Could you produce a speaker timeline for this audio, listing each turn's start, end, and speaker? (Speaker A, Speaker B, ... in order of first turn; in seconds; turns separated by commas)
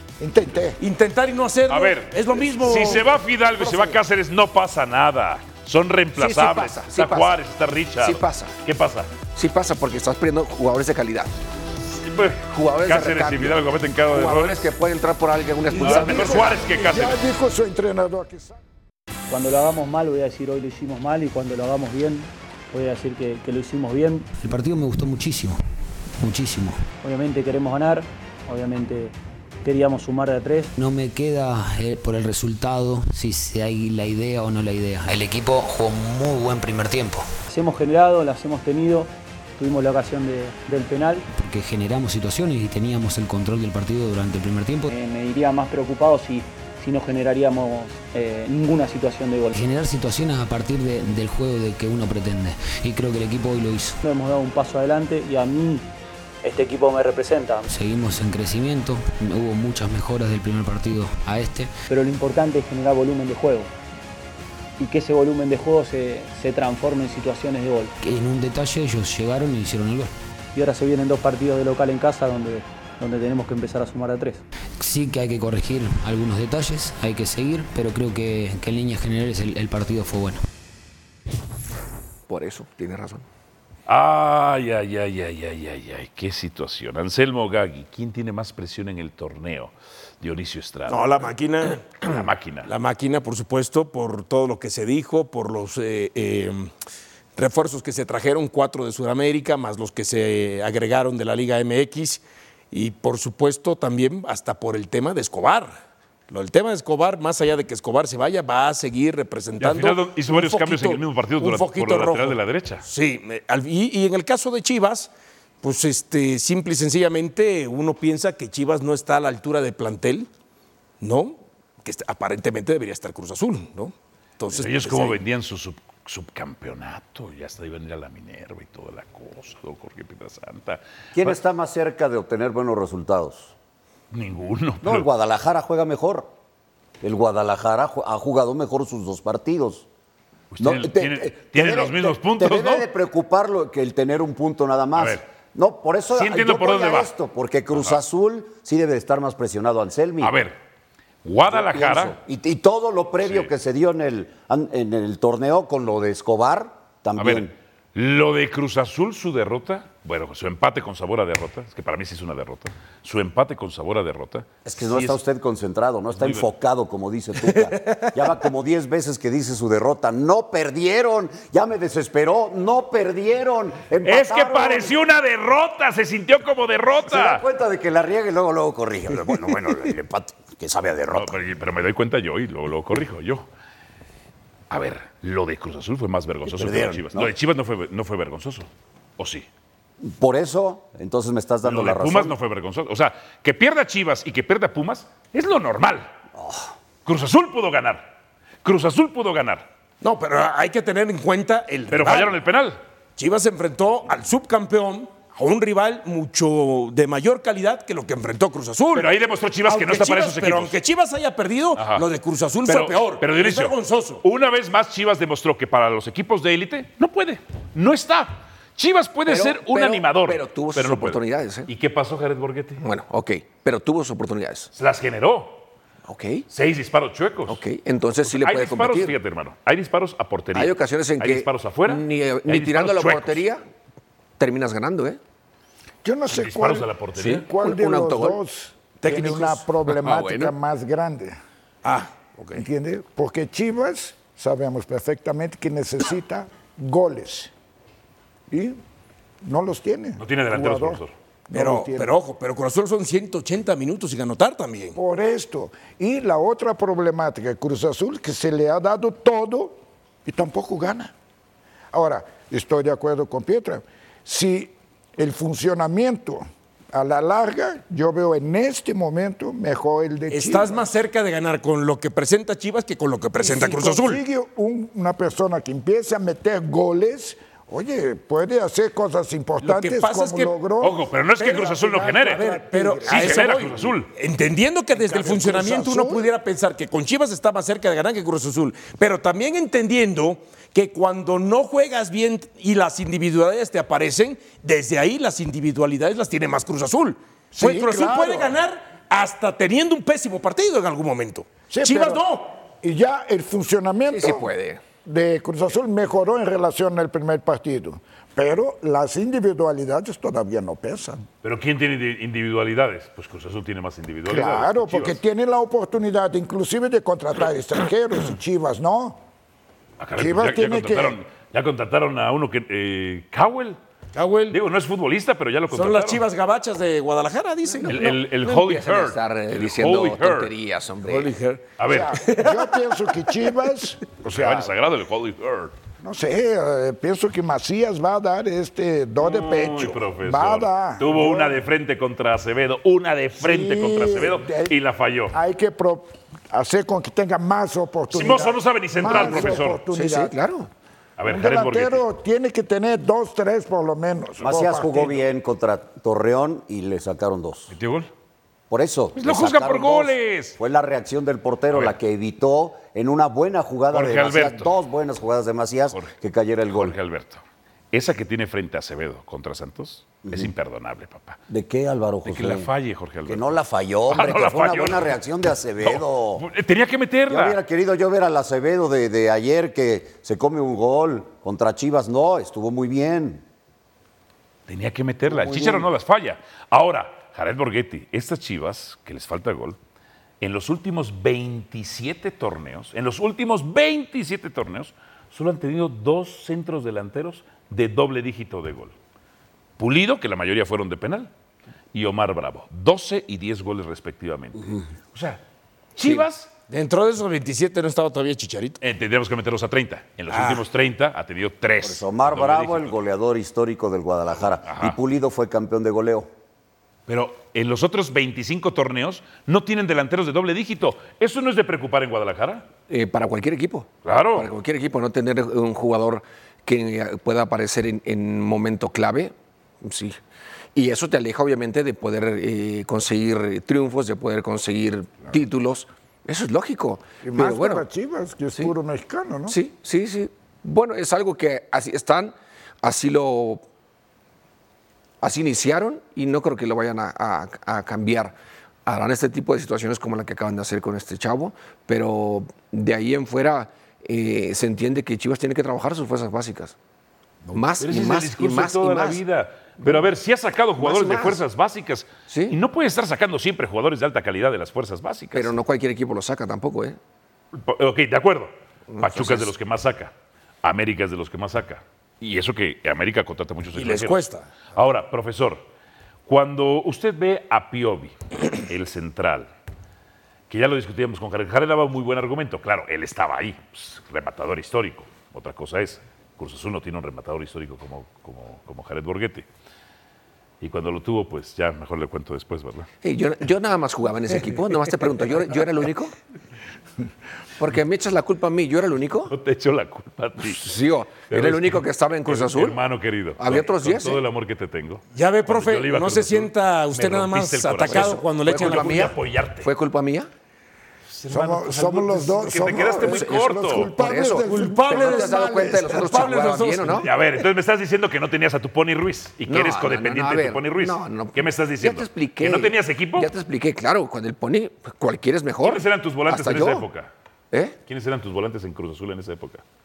Speaker A: 0.2-0.8, Speaker B: 0.8-3.1, Speaker C: 1.7-9.1, Speaker D: 6.2-7.3, Speaker D: 8.0-8.5, Speaker D: 9.3-11.3, Speaker C: 12.0-14.7, Speaker D: 12.5-16.5, Speaker A: 15.7-18.6, Speaker C: 15.7-17.2, Speaker E: 19.3-24.3, Speaker F: 24.4-25.6, Speaker F: 26.2-26.8, Speaker E: 27.0-30.7, Speaker F: 30.8-37.3, Speaker E: 37.5-41.2, Speaker F: 41.3-44.9, Speaker E: 44.9-49.5, Speaker F: 49.5-54.0, Speaker E: 54.0-55.9, Speaker E: 56.4-57.7, Speaker F: 57.7-61.7, Speaker E: 61.9-63.7, Speaker E: 64.8-67.9, Speaker F: 68.0-70.1, Speaker E: 70.5-74.4, Speaker F: 74.8-80.4, Speaker D: 82.3-83.2, Speaker C: 83.9-91.3, Speaker B: 90.9-92.1, Speaker C: 92.0-92.7, Speaker B: 92.6-96.7, Speaker B: 97.3-105.7, Speaker B: 106.3-115.1, Speaker C: 109.6-112.8, Speaker B: 115.6-120.3, Speaker B: 121.0-125.2, Speaker C: 124.5-131.3, Speaker G: 131.1-133.5, Speaker C: 134.1-135.1, Speaker G: 134.8-136.3, Speaker G: 137.0-139.8, Speaker C: 140.5-142.9, Speaker G: 140.6-150.4, Speaker C: 145.0-145.2, Speaker C: 146.1-147.1, Speaker C: 150.2-150.5, Speaker C: 151.2-152.2, Speaker G: 151.5-157.5, Speaker C: 153.2-153.5, Speaker C: 157.2-165.2, Speaker G: 164.6-174.9, Speaker C: 166.1-166.5, Speaker C: 174.0-177.4, Speaker G: 177.1-181.4, Speaker C: 181.1-183.4, Speaker C: 184.7-189.5, Speaker G: 186.4-187.3, Speaker G: 190.0-192.3, Speaker C: 191.6-196.1, Speaker G: 196.3-196.7, Speaker C: 197.1-198.1, Speaker C: 198.6-199.7, Speaker B: 200.0-202.3, Speaker C: 201.9-202.8, Speaker B: 203.2-209.1, Speaker C: 208.9-210.8, Speaker B: 209.6-214.2, Speaker C: 211.8-212.0, Speaker C: 212.7-222.8, Speaker D: 219.2-221.7, Speaker D: 222.8-224.7, Speaker C: 224.7-225.7, Speaker D: 226.0-226.5, Speaker C: 226.5-227.6, Speaker D: 227.5-229.2, Speaker C: 228.2-233.4, Speaker D: 230.5-233.6, Speaker D: 234.4-235.2, Speaker A: 236.0-241.4, Speaker C: 236.3-237.5, Speaker D: 237.2-238.4, Speaker B: 239.0-239.6, Speaker D: 239.9-240.5, Speaker B: 241.8-242.6, Speaker A: 242.5-247.5, Speaker A: 248.5-248.8, Speaker A: 249.4-252.1, Speaker C: 250.2-251.1, Speaker B: 251.5-255.0, Speaker A: 254.9-261.1, Speaker A: 261.9-270.9, Speaker B: 270.3-274.2, Speaker A: 273.4-283.8, Speaker B: 279.6-280.5, Speaker C: 280.8-282.5, Speaker B: 281.4-302.5, Speaker C: 283.0-284.1, Speaker A: 284.9-286.3, Speaker A: 297.5-298.6, Speaker A: 301.7-302.2, Speaker A: 302.8-304.5, Speaker D: 304.1-304.8, Speaker A: 305.0-311.2, Speaker C: 311.4-315.2, Speaker A: 314.3-319.2, Speaker C: 320.0-323.8, Speaker A: 320.2-321.2, Speaker B: 324.1-324.6, Speaker C: 324.5-326.2, Speaker B: 325.7-328.1, Speaker C: 327.9-330.5, Speaker D: 327.9-331.3, Speaker B: 331.0-331.6, Speaker C: 331.8-332.2, Speaker A: 331.9-334.7, Speaker B: 332.2-332.7, Speaker C: 334.2-335.7, Speaker A: 336.0-341.6, Speaker C: 339.2-345.3, Speaker A: 343.4-344.7, Speaker A: 345.3-350.3, Speaker C: 348.1-349.8, Speaker D: 349.1-350.7, Speaker C: 351.2-352.0, Speaker A: 351.3-355.2, Speaker G: 354.4-357.7, Speaker C: 357.7-358.1, Speaker G: 358.7-367.0, Speaker C: 359.1-360.6, Speaker C: 363.9-364.7, Speaker C: 366.7-371.4, Speaker G: 371.5-372.7, Speaker C: 372.2-373.5, Speaker G: 373.2-376.4, Speaker C: 374.1-375.2, Speaker C: 375.8-377.6, Speaker G: 377.3-383.4, Speaker C: 384.7-389.8, Speaker G: 385.3-385.9, Speaker C: 390.4-398.9, Speaker C: 399.8-401.3, Speaker C: 401.9-405.4, Speaker C: 405.9-406.5, Speaker B: 406.7-408.8, Speaker C: 408.8-413.0, Speaker B: 410.3-410.6, Speaker G: 411.8-416.3, Speaker C: 414.6-414.9, Speaker C: 417.1-422.7, Speaker D: 422.9-430.2, Speaker C: 424.0-424.5, Speaker D: 430.7-437.8, Speaker A: 437.2-439.6, Speaker D: 439.5-443.6, Speaker D: 445.2-456.7, Speaker D: 457.5-459.2, Speaker C: 457.8-465.5, Speaker D: 459.8-460.1, Speaker D: 460.8-461.4, Speaker D: 462.3-462.6, Speaker D: 465.3-467.0, Speaker C: 467.5-475.6, Speaker D: 468.9-469.5, Speaker B: 473.7-474.5, Speaker C: 476.3-479.5, Speaker C: 480.5-489.4, Speaker C: 490.6-492.9, Speaker D: 493.0-496.1, Speaker D: 497.6-499.3, Speaker C: 499.3-500.7, Speaker D: 500.4-502.8, Speaker C: 501.3-509.7, Speaker D: 503.4-504.2, Speaker B: 505.1-509.1, Speaker D: 507.9-510.3, Speaker C: 511.1-513.9, Speaker A: 511.3-516.3, Speaker D: 512.8-517.1, Speaker B: 514.3-517.1, Speaker C: 516.9-523.3, Speaker D: 519.5-526.9, Speaker C: 525.6-527.1, Speaker C: 527.9-529.6